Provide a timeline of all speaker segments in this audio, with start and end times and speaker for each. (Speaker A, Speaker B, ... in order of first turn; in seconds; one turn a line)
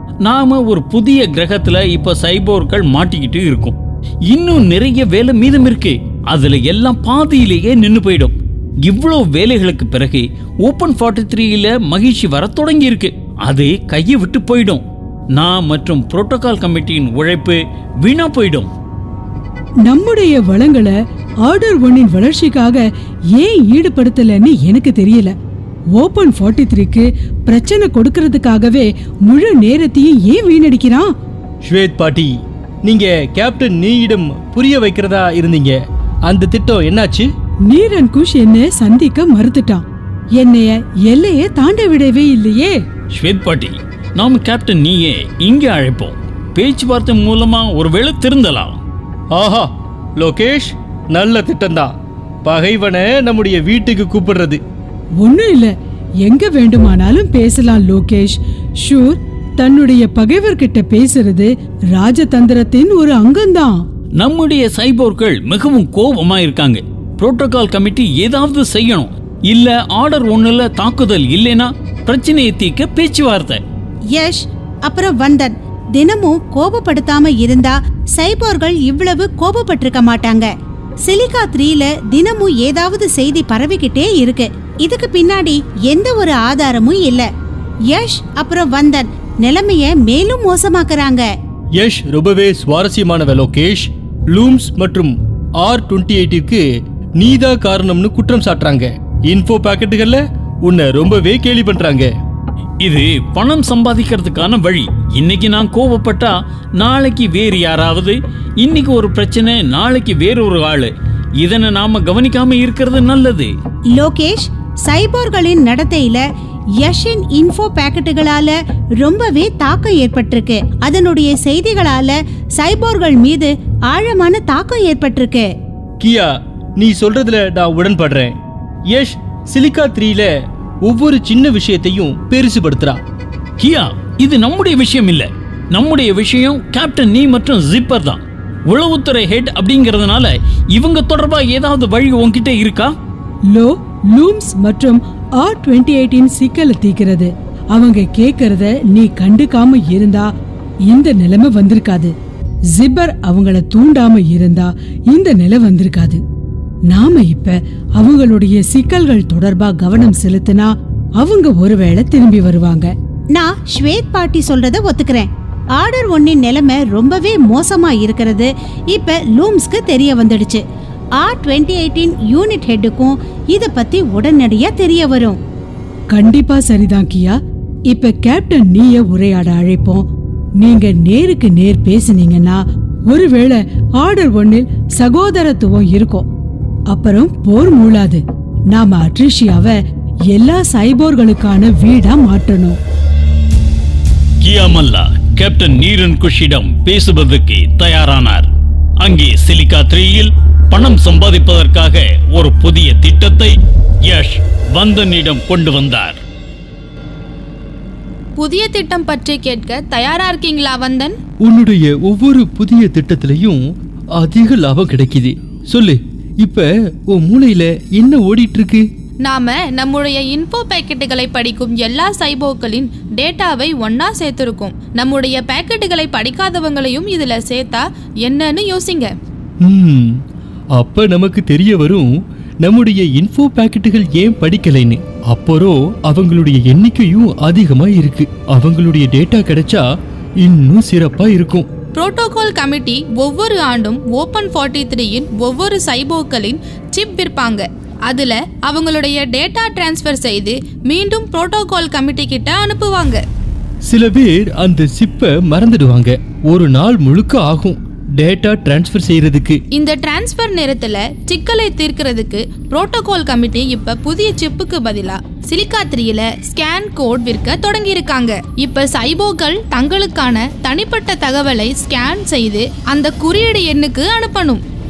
Speaker A: 0.2-3.8
Speaker A: 4.3-14.8
Speaker A: 15.3-18.7
Speaker B: 19.8-20.9
Speaker B: 21.4-22.8
Speaker B: 23.3-25.3
Speaker B: 26.0-31.1
Speaker C: 31.6-35.8
Speaker C: 36.3-37.3
Speaker B: 37.7-39.8
Speaker B: 40.4-42.8
Speaker A: 43.1-48.8
Speaker C: 49.3-51.9
Speaker C: 52.5-54.6
Speaker B: 55.2-55.7
Speaker B: 56.2-63.8
Speaker A: 64.2-73.6
Speaker D: 74.1-80.5
Speaker D: 81.0-87.3
Speaker D: 87.9-91.3
Speaker C: 91.8-96.6
Speaker C: 97.2-102.1
Speaker A: 102.8-113.5
Speaker D: 113.9-116.2
Speaker D: 116.8-125.5
Speaker C: 126.0-128.3
Speaker C: 128.9-130.3
Speaker C: 130.8-133.0
Speaker A: 133.6-142.9
Speaker B: 143.5-150.3
Speaker B: 150.9-152.1
Speaker B: 152.7-156.2
Speaker B: 156.9-162.9
Speaker D: 163.3-170.6
Speaker D: 171.2-175.4
Speaker B: 176.1-177.4
Speaker B: 177.9-180.1
Speaker B: 180.6-186.3
Speaker B: 186.9-189.8
Speaker B: 190.3-192.8
Speaker A: 194.4-198.5
Speaker A: 199.0-203.5
Speaker A: 204.1-206.2
Speaker E: 208.4-211.2
Speaker C: 211.4-213.6
Speaker C: 214.2-218.8
Speaker E: 219.2-229.1
Speaker C: 229.6-230.2
Speaker C: 230.8-232.1
Speaker C: 232.6-239.8
Speaker C: 240.4-241.7
Speaker E: 241.9-253.2
Speaker C: 253.9-259.6
Speaker E: 259.7-274.6